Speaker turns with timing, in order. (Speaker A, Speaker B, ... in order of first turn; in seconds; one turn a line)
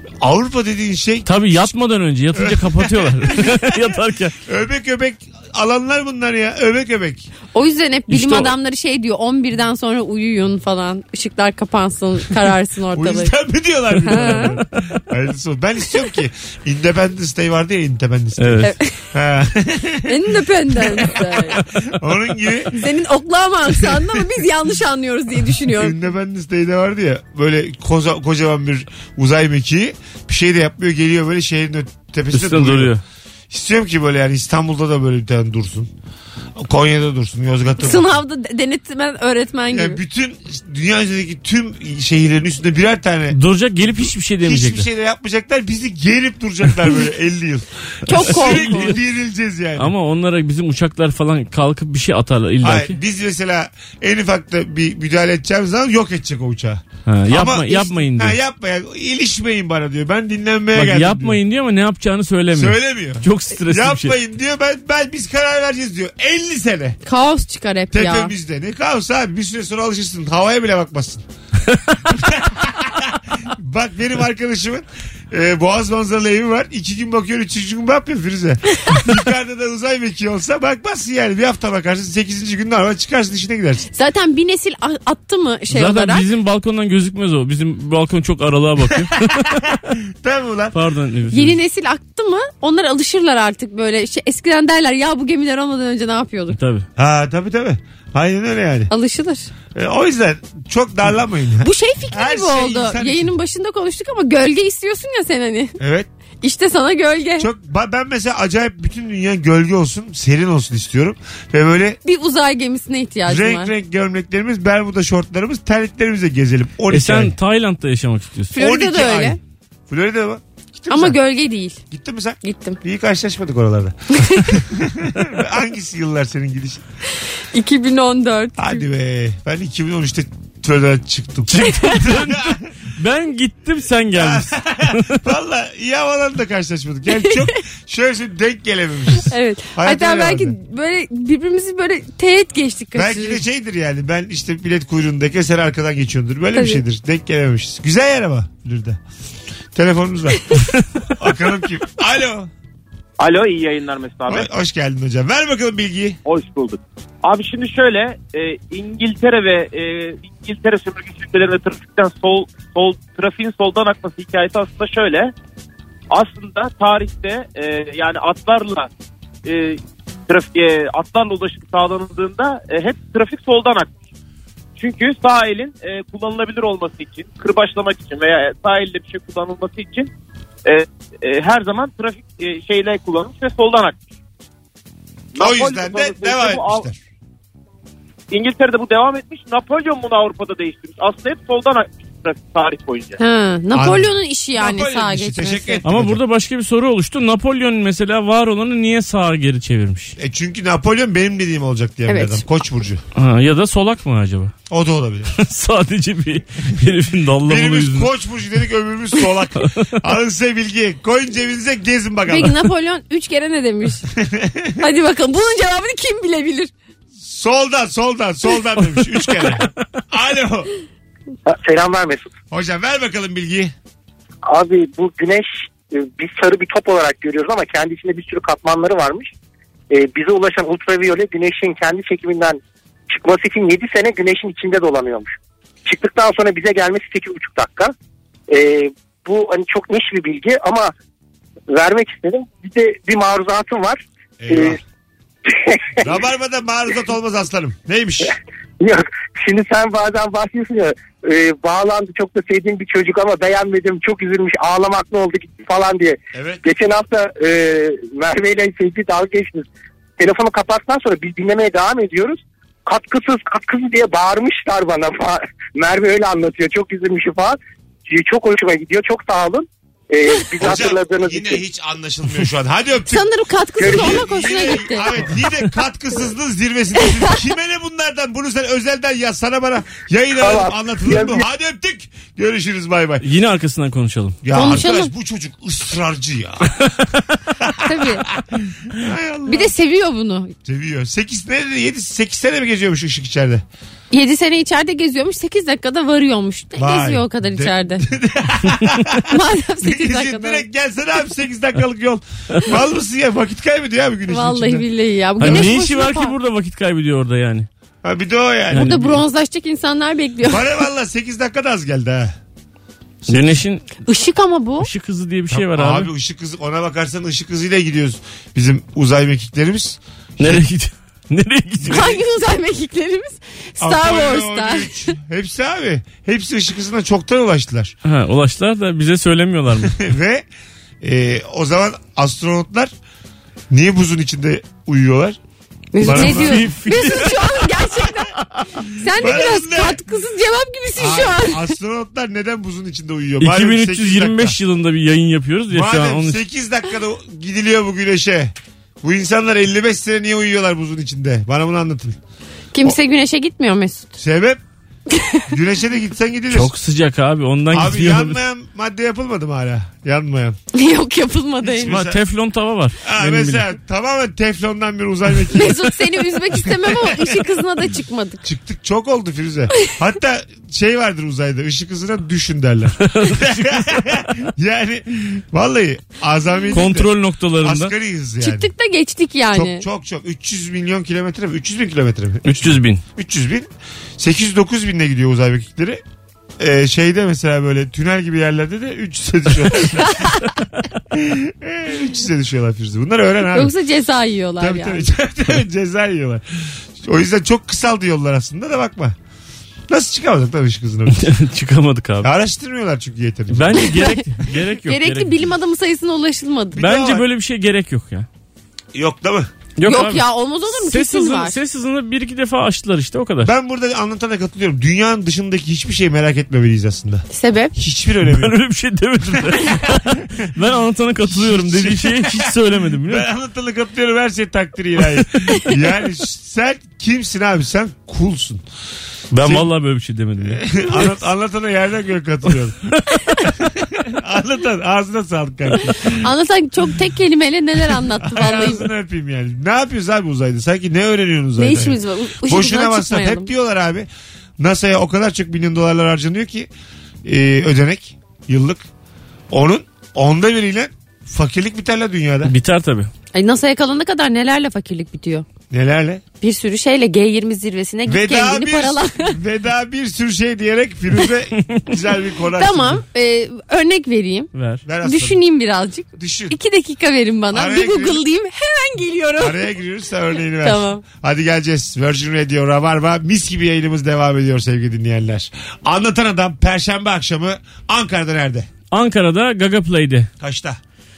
Speaker A: 0.2-1.7
Speaker B: 1.2-4.3
Speaker A: 2.3-7.3
Speaker C: 7.5-13.3
Speaker B: 8.1-8.5
Speaker A: 12.9-21.2
Speaker C: 14.0-14.6
Speaker B: 18.4-18.7
Speaker C: 18.6-19.1
Speaker C: 20.1-21.6
Speaker A: 21.8-22.8
Speaker C: 22.7-26.0
Speaker A: 25.7-32.9
Speaker B: 32.3-33.0
Speaker A: 33.5-35.9
Speaker A: 36.5-38.1
Speaker C: 37.8-40.0
Speaker A: 39.7-49.9
Speaker B: 43.3-44.9
Speaker C: 48.1-49.0
Speaker B: 48.1-48.9
Speaker B: 49.8-52.9
Speaker A: 52.6-61.4
Speaker B: 57.0-58.4
Speaker B: 60.7-64.1
Speaker A: 62.5-67.0
Speaker C: 67.0-68.3
Speaker A: 67.9-71.2
Speaker A: 72.1-83.9
Speaker C: 83.9-86.3
Speaker B: 85.7-89.5
Speaker A: 89.6-90.8
Speaker B: 90.7-91.6
Speaker C: 91.3-96.6
Speaker B: 96.5-96.8
Speaker A: 97.0-98.9
Speaker C: 98.9-99.5
Speaker A: 99.7-103.3
Speaker C: 101.6-105.8
Speaker A: 105.8-106.1
Speaker C: 106.4-107.5
Speaker A: 107.4-112.0
Speaker C: 112.0-113.7
Speaker A: 113.2-117.3
Speaker B: 116.9-118.5
Speaker C: 118.5-119.4
Speaker A: 118.5-119.4
Speaker A: 119.9-121.2
Speaker C: 120.9-121.8
Speaker A: 121.9-126.8
Speaker C: 122.4-122.8
Speaker C: 124.2-124.6
Speaker C: 127.5-128.8
Speaker A: 128.6-132.6
Speaker B: 131.5-135.2
Speaker A: 134.1-140.6
Speaker C: 137.2-137.5
Speaker C: 139.2-143.4
Speaker A: 142.9-149.0
Speaker C: 146.5-146.8
Speaker A: 149.7-150.6
Speaker A: 151.2-152.5
Speaker D: 153.2-154.5
Speaker A: 154.3-156.2
Speaker D: 156.2-165.3
Speaker D: 166.1-168.9
Speaker D: 169.4-173.9
Speaker D: 174.8-180.1
Speaker D: 180.6-184.0
Speaker D: 185.3-186.8
Speaker A: 185.3-187.0
Speaker D: 188.3-193.2
Speaker C: 193.2-195.8
Speaker A: 193.7-196.2
Speaker B: 195.8-200.1
Speaker A: 200.2-203.0
Speaker C: 202.1-202.4
Speaker B: 203.1-204.5
Speaker A: 204.7-205.3
Speaker B: 205.3-208.1
Speaker A: 207.4-212.6
Speaker C: 212.2-214.0
Speaker A: 214.2-214.8
Speaker C: 214.8-216.7
Speaker A: 217.2-220.7
Speaker B: 219.4-219.7
Speaker E: 221.4-222.3
Speaker A: 222.5-223.7
Speaker E: 224.5-229.3
Speaker E: 229.9-235.3
Speaker E: 235.8-237.9
Speaker E: 238.5-240.9
Speaker E: 241.7-244.8
Speaker A: 244.4-244.8
Speaker E: 245.5-246.1
Speaker A: 246.0-248.3
Speaker E: 248.8-259.6
Speaker A: 256.3-256.6
Speaker E: 260.2-271.6
Speaker A: 270.6-283.2
Speaker C: 273.1-275.2
Speaker E: 273.8-274.2
Speaker C: 277.0-277.3
Speaker E: 280.4-281.4
Speaker B: 283.2-284.4
Speaker A: 284.4-286.8
Speaker C: 284.5-285.1
Speaker A: 287.6-289.7
Speaker C: 287.8-288.2
Speaker C: 289.4-290.5
Speaker A: 290.6-293.6
Speaker C: 294.1-298.0
Speaker A: 296.8-299.3
Speaker C: 299.3-300.6
Speaker A: 299.8-304.9
Speaker C: 304.3-306.4
Speaker B: 305.4-307.7
Speaker A: 305.4-305.8
Speaker A: 308.0-309.2
Speaker C: 308.7-310.8
Speaker B: 308.7-309.1
Speaker A: 310.5-312.3
Speaker A: 313.3-313.6
Speaker B: 313.3-313.9
Speaker C: 314.0-314.9
Speaker B: 314.8-316.1
Speaker A: 315.5-320.6
Speaker B: 320.4-322.2
Speaker C: 321.8-325.1
Speaker A: 323.8-327.9
Speaker B: 328.0-330.0
Speaker A: 329.8-330.4
Speaker A: 331.0-332.9
Speaker A: 333.7-335.4
Speaker C: 335.9-338.3
Speaker A: 336.0-336.7
Speaker B: 336.0-337.6
Speaker C: 339.0-341.7
Speaker A: 339.1-340.0
Speaker A: 340.9-344.6
Speaker B: 343.4-346.4
Speaker A: 345.7-352.2
Speaker C: 352.7-354.2
Speaker A: 354.2-354.6
Speaker C: 355.1-355.5
Speaker A: 355.5-356.7
Speaker B: 356.5-358.4
Speaker A: 357.7-360.6
Speaker C: 360.7-362.0
Speaker A: 361.6-362.2
Speaker B: 361.8-363.6
Speaker A: 363.0-365.9
Speaker C: 365.5-368.4
Speaker A: 366.8-367.3
Speaker A: 368.4-378.7
Speaker B: 373.0-373.3
Speaker B: 376.7-377.9
Speaker C: 378.4-379.9
Speaker A: 379.5-386.0
Speaker B: 382.4-383.0
Speaker A: 386.6-390.4
Speaker A: 391.1-393.7
Speaker C: 393.5-395.1
Speaker A: 394.6-396.4
Speaker A: 397.0-399.1
Speaker A: 399.9-401.3
Speaker B: 401.2-402.3
Speaker A: 402.2-403.9
Speaker B: 403.5-405.4
Speaker C: 403.9-404.2
Speaker C: 404.8-406.8
Speaker A: 406.8-407.2
Speaker B: 406.8-408.3
Speaker A: 408.9-409.5
Speaker B: 409.8-413.5
Speaker C: 409.8-411.6
Speaker A: 413.4-418.6
Speaker C: 417.3-417.7
Speaker B: 418.2-423.2
Speaker A: 419.2-420.4
Speaker A: 421.2-428.6
Speaker B: 429.3-431.1
Speaker A: 429.4-429.7
Speaker A: 430.4-432.8
Speaker A: 433.6-436.2
Speaker C: 436.1-438.9
Speaker A: 438.2-444.1
Speaker C: 441.6-443.5
Speaker A: 444.6-446.7
Speaker A: 447.2-448.8
Speaker A: 449.5-452.5
Speaker B: 452.4-453.1
Speaker C: 453.3-455.4
Speaker A: 455.7-456.2
Speaker C: 456.4-459.4
Speaker A: 458.1-463.0
Speaker C: 462.5-469.7
Speaker B: 464.5-464.8
Speaker A: 464.9-465.4
Speaker A: 466.1-466.6
Speaker A: 467.5-468.2
Speaker A: 469.4-478.7
Speaker C: 470.6-471.0
Speaker B: 478.9-480.3
Speaker A: 480.4-480.8